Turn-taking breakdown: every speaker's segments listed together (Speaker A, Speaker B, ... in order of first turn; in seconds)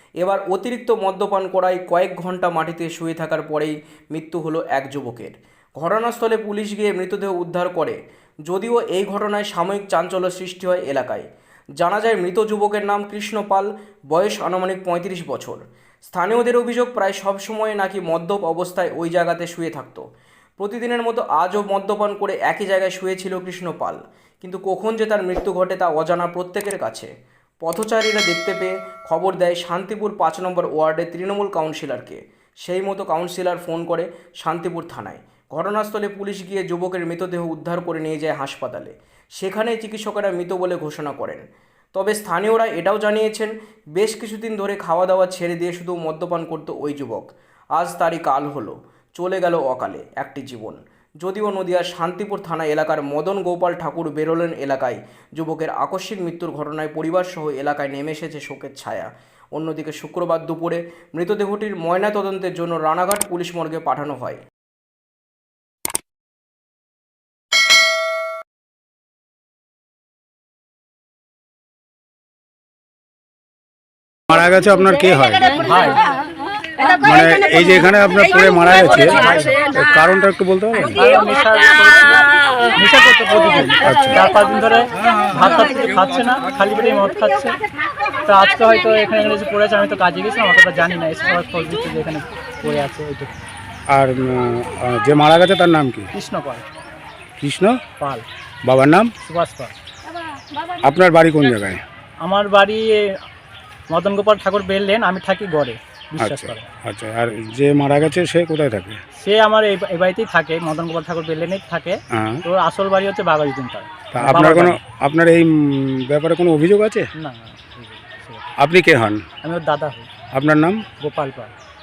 Speaker A: 0.2-20.1, 20.6-27.1, 27.6-64.4
Speaker B: 74.3-75.6, 77.0-81.0, 83.8-84.2, 93.9-96.1, 97.4-97.8, 98.6-99.1, 100.8-101.8, 106.2-109.0, 112.1-112.4, 114.1-117.1, 118.6-119.2, 120.3-120.8
Speaker C: 75.6-76.0, 79.2-79.5, 80.8-82.2, 82.8-87.6, 88.2-93.3, 96.1-96.7, 98.0-98.3, 99.2-99.7, 102.2-103.2, 103.9-106.7, 109.2-114.8, 117.2-118.5, 119.4-120.1, 121.0-121.5